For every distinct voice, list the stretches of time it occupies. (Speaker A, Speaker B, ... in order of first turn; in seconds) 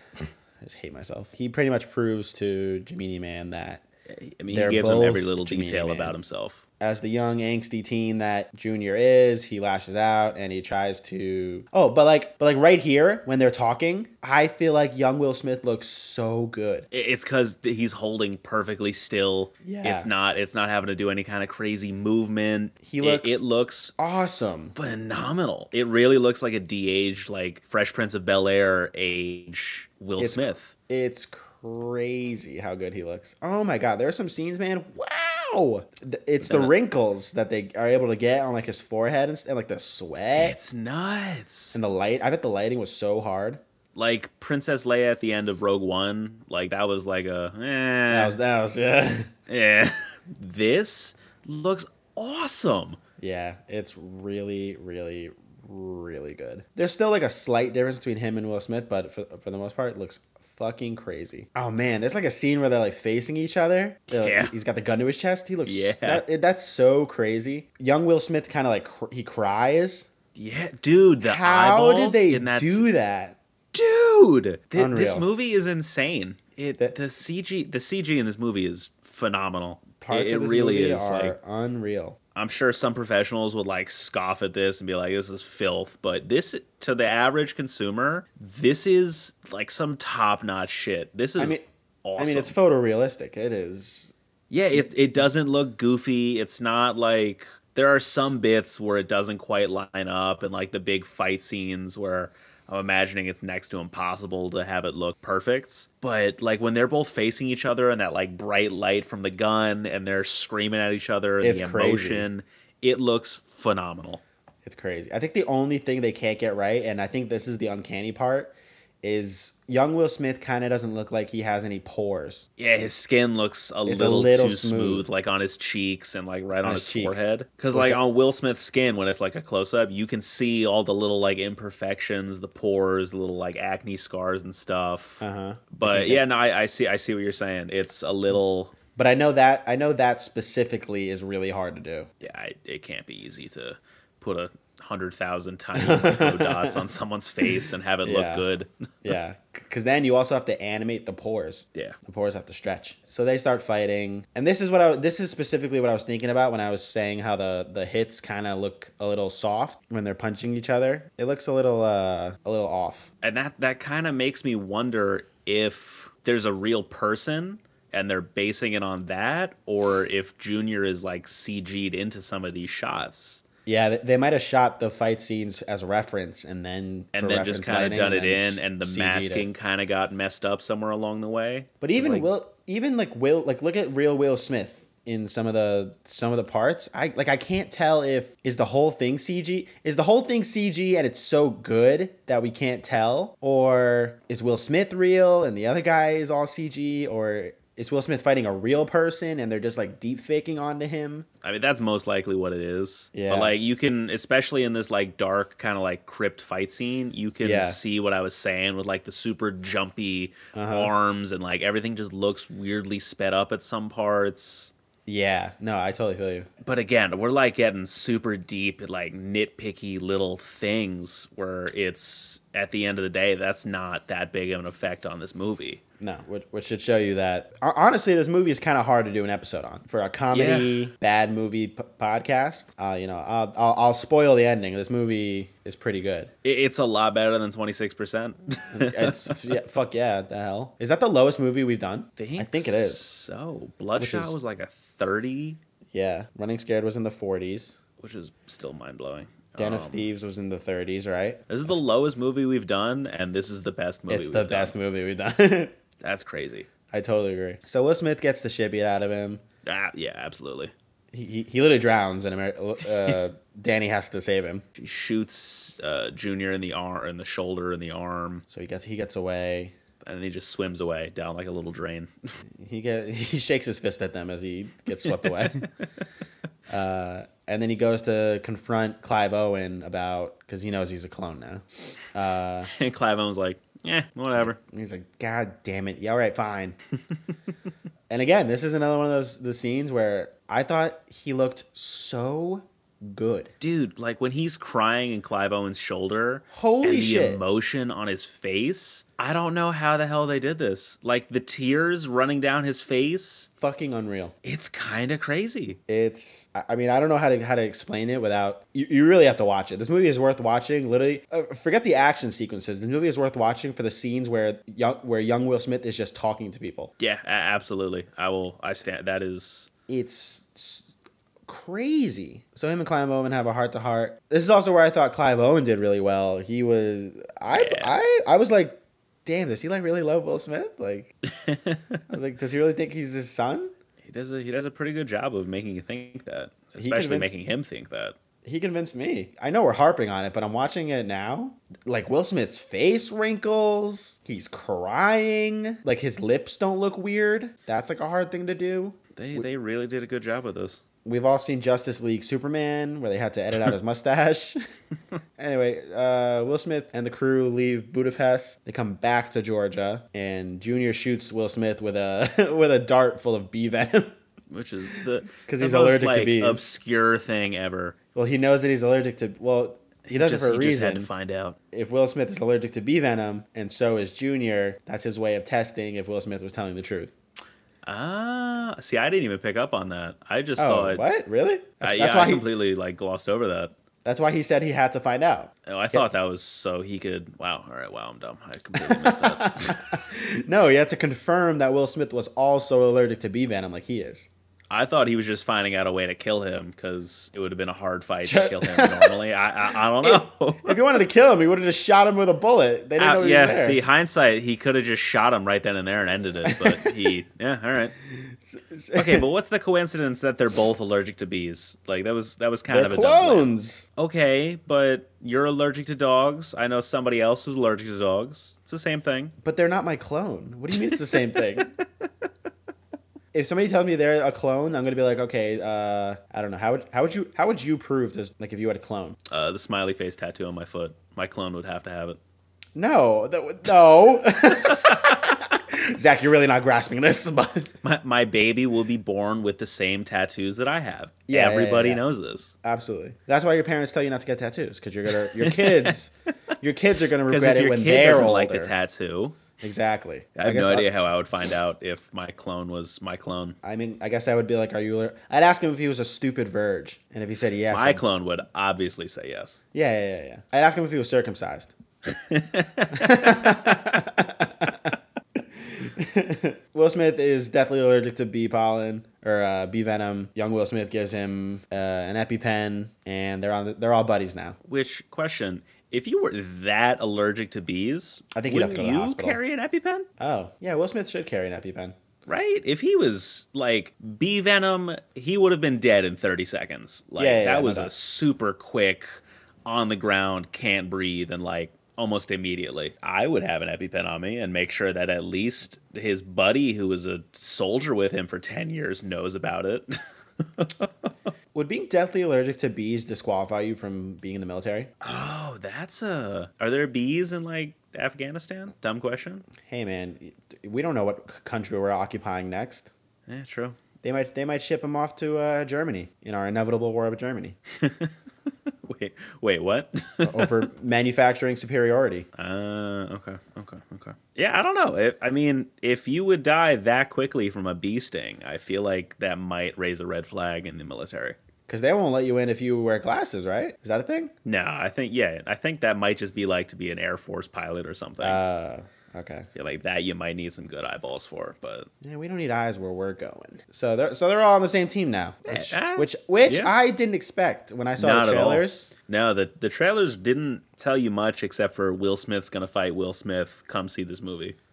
Speaker A: 0.6-3.8, 4.5-6.1, 6.8-16.9, 19.6-20.1, 22.8-23.4, 24.0-24.8, 30.2-40.5, 41.7-43.6, 48.1-49.3, 53.2-70.1, 71.2-73.4, 74.7-75.2, 80.0-82.2, 91.4-91.6, 92.2-94.1, 111.4-112.3, 114.6-122.5, 123.8-125.0, 126.6-128.0, 135.2-136.2, 138.9-142.1, 145.7-146.8, 148.0-148.4, 149.0-163.1, 173.7-179.5, 181.8-201.3, 203.1-203.5, 207.4-207.8, 210.5-210.9, 215.1-216.5, 226.0-236.3, 238.7-243.0, 244.0-244.3, 245.9-247.8, 249.6-251.8, 254.1-255.8, 256.9-259.4, 261.1-264.6, 268.5-269.7, 272.6-275.7, 276.7-282.7, 284.3-286.8, 288.1-293.5, 296.5-297.4, 303.6-304.3, 305.9-316.9, 319.9-320.9, 321.5-331.1, 332.1-333.7, 336.8-337.6, 338.4-349.4, 351.0-354.6, 355.4-364.1, 365.3-366.6, 368.1-371.1, 371.7-377.1, 380.6-382.5, 384.0-386.1, 388.8-394.3, 398.2-399.2, 400.0-403.8, 406.4-407.0, 408.2-409.2, 412.7-413.8, 419.4-421.7, 423.3-429.2, 432.8-437.7, 441.3-442.0, 442.6-448.7, 449.6-450.9, 453.6-458.0, 459.7-461.7, 462.9-474.6, 478.3-479.4, 480.2-481.9, 487.2-487.9, 501.5-504.9, 509.6-512.9, 514.0-517.6, 520.2-522.3, 531.7-534.3, 538.2-539.5, 542.0-548.9
Speaker B: 4.1-6.6, 16.9-24.0, 24.7-30.7, 36.4-36.7, 40.4-41.8, 43.9-48.4, 49.5-53.0, 64.2-64.5, 65.7-66.2, 70.3-72.8, 73.7-81.3, 82.3-92.5, 94.5-114.2, 122.6-138.8, 142.2-149.1, 163.2-173.4, 177.1-182.3, 201.4-214.7, 216.6-225.8, 230.3-230.9, 236.4-239.4, 242.2-245.6, 248.0-250.1, 251.5-254.7, 256.0-256.7, 259.6-260.7, 264.8-268.4, 270.0-272.1, 275.0-275.7, 282.7-284.6, 293.6-303.5, 304.4-305.8, 317.0-319.7, 327.5-327.9, 331.3-332.0, 334.0-338.1, 349.1-350.8, 364.5-367.9, 370.1-371.6, 377.8-381.0, 381.8-383.7, 385.6-389.9, 394.7-400.8, 403.0-407.9, 408.9-419.3, 420.7-421.7, 429.3-432.2, 434.6-435.1, 437.8-442.5, 445.2-445.9, 447.3-449.4, 450.4-453.6, 457.7-459.6, 462.1-463.7, 474.6-480.1, 482.2-501.1, 505.0-509.4, 513.3-513.8, 517.8-518.1, 518.6-520.6, 522.4-531.4, 534.4-538.4, 539.5-541.9, 545.5-546.7, 548.0-554.5